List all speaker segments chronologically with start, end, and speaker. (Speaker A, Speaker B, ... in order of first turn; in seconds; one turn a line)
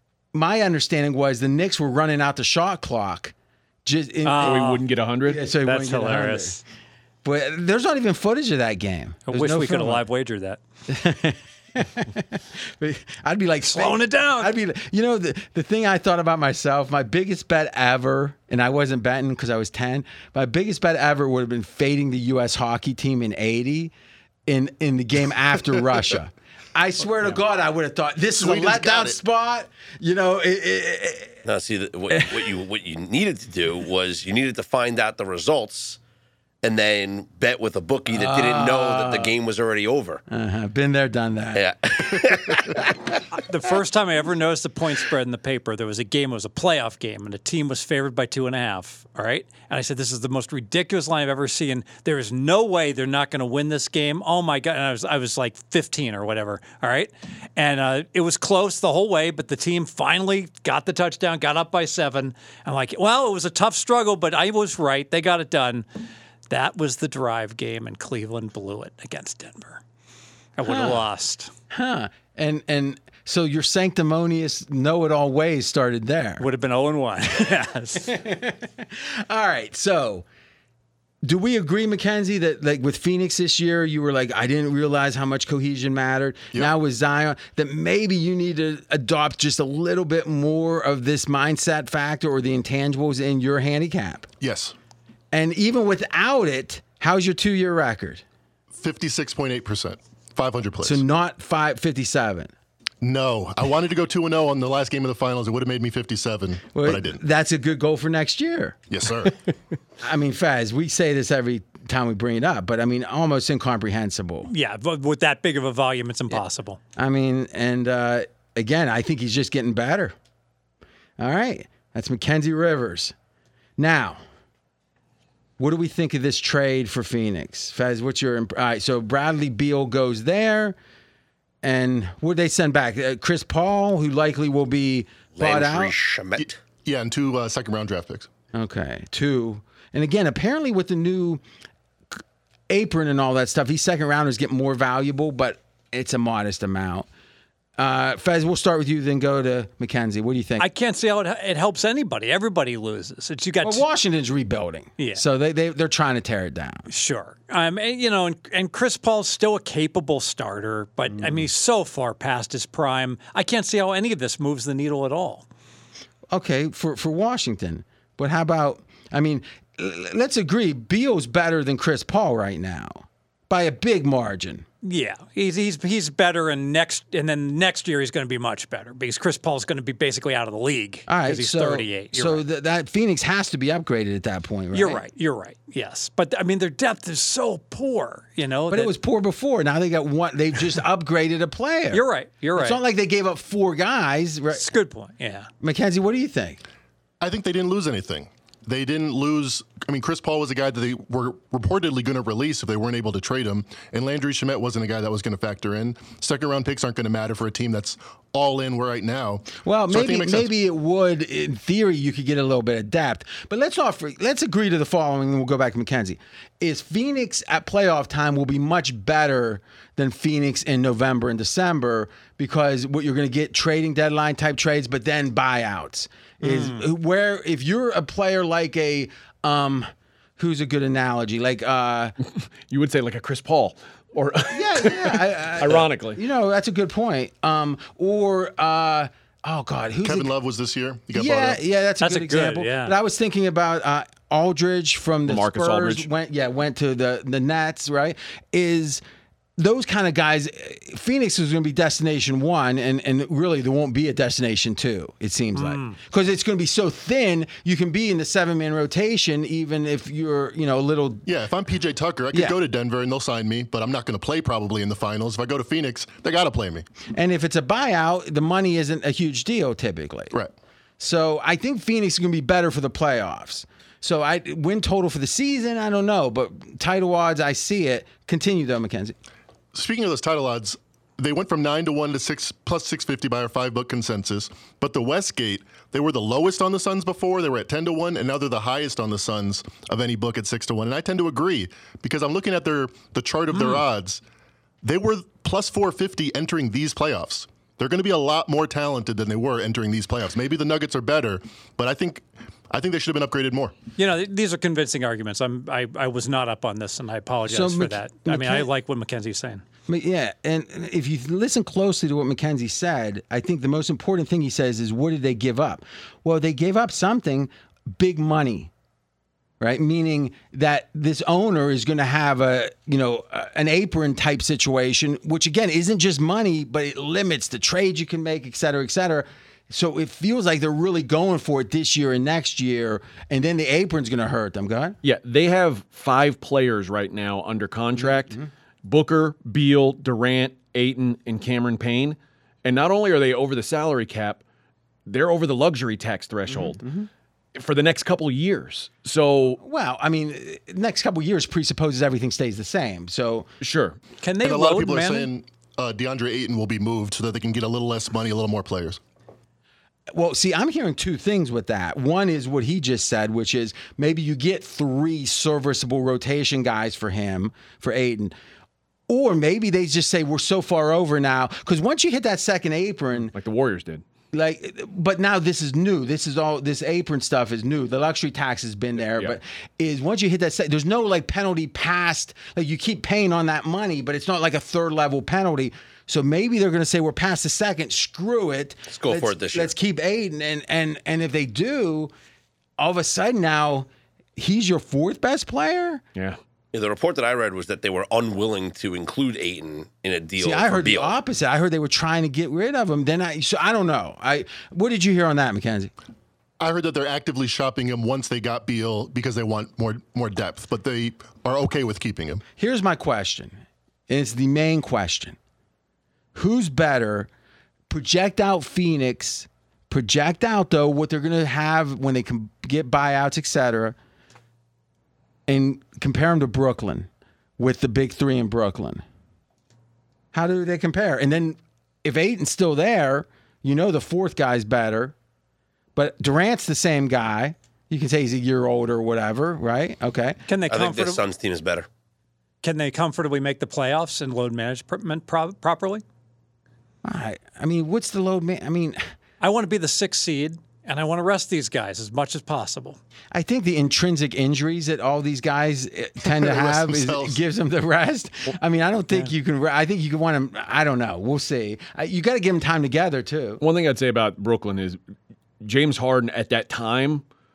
Speaker A: 0.3-3.3
Speaker A: 3.9-6.6
Speaker B: 4.2-4.8
Speaker C: 4.3-5.4
Speaker B: 5.6-6.6
Speaker A: 7.2-10.1
Speaker B: 9.3-10.6
Speaker A: 10.9-23.9
Speaker B: 13.6-14.5
Speaker A: 24.5-31.4
Speaker D: 28.4-29.2
Speaker E: 31.4-36.0
Speaker A: 32.1-32.5
Speaker E: 36.6-40.2
Speaker A: 38.1-39.3
Speaker A: 40.3-42.6
Speaker E: 41.5-43.0
Speaker B: 43.4-65.9
Speaker B: 66.5-69.8
Speaker B: 70.6-71.5
Speaker A: 70.7-71.0
Speaker A: 71.7-76.5
Speaker B: 76.4-78.2
Speaker A: 78.0-80.3
Speaker A: 81.2-94.3
Speaker D: 94.4-94.7
Speaker A: 95.3-98.2
Speaker D: 98.8-101.0
Speaker A: 100.8-102.5
Speaker D: 103.0-107.2
Speaker A: 106.7-108.8
Speaker D: 108.9-109.4
Speaker A: 110.0-114.5
Speaker B: 114.5-116.8
Speaker A: 117.0-120.2
Speaker A: 121.2-123.2
Speaker A: 123.8-124.2
Speaker A: 125.6-130.8
Speaker A: 131.6-135.9
Speaker E: 135.3-136.6
Speaker D: 136.4-138.3
Speaker A: 138.5-141.4
Speaker A: 142.7-147.1
Speaker A: 147.8-150.7
Speaker B: 150.6-153.8
Speaker A: 153.6-156.9
Speaker B: 156.9-165.5
Speaker A: 161.2-161.4
Speaker A: 166.3-174.7
Speaker B: 174.8-182.4
Speaker A: 181.1-185.0
Speaker B: 184.7-188.9
Speaker A: 188.7-192.0
Speaker B: 191.9-192.8
Speaker A: 192.6-194.7
Speaker B: 194.5-195.5
Speaker A: 195.6-196.6
Speaker D: 197.2-210.5
Speaker A: 209.6-232.2
Speaker B: 226.4-226.9
Speaker C: 232.4-236.2
Speaker A: 234.5-240.3
Speaker D: 240.0-241.6
Speaker A: 241.1-249.0
Speaker B: 242.0-243.0
Speaker C: 245.3-246.1
Speaker A: 249.6-261.2
Speaker B: 255.6-256.0
Speaker D: 261.3-266.9
Speaker A: 267.1-270.3
Speaker A: 271.0-279.1
Speaker D: 279.7-294.2
Speaker B: 293.5-293.8
Speaker D: 294.8-303.7
Speaker B: 304.0-309.6
Speaker A: 307.5-308.7
Speaker A: 309.9-318.7
Speaker A: 319.6-335.0
Speaker C: 335.0-344.4
Speaker A: 337.9-338.5
Speaker C: 345.1-346.8
Speaker A: 346.5-347.1
Speaker C: 347.6-349.6
Speaker A: 349.6-353.5
Speaker C: 353.6-354.0
Speaker B: 354.2-355.3
Speaker D: 354.4-359.0
Speaker A: 360.1-368.3
Speaker A: 369.1-373.3
Speaker C: 373.2-374.0
Speaker A: 374.3-392.1
Speaker E: 388.9-389.7
Speaker A: 392.8-396.0
Speaker E: 396.7-401.1
Speaker A: 400.4-405.9
Speaker D: 406.6-412.4
Speaker A: 412.6-415.4
Speaker A: 416.3-417.3
Speaker A: 417.9-424.0
Speaker A: 425.5-429.0
Speaker A: 430.3-435.1
Speaker A: 435.9-440.4
Speaker B: 440.5-441.2
Speaker E: 440.7-441.9
Speaker B: 442.6-446.0
Speaker A: 447.0-449.0
Speaker B: 449.4-453.0
Speaker A: 453.3-463.6
Speaker D: 456.3-457.4
Speaker C: 463.6-465.0
Speaker C: 465.6-467.2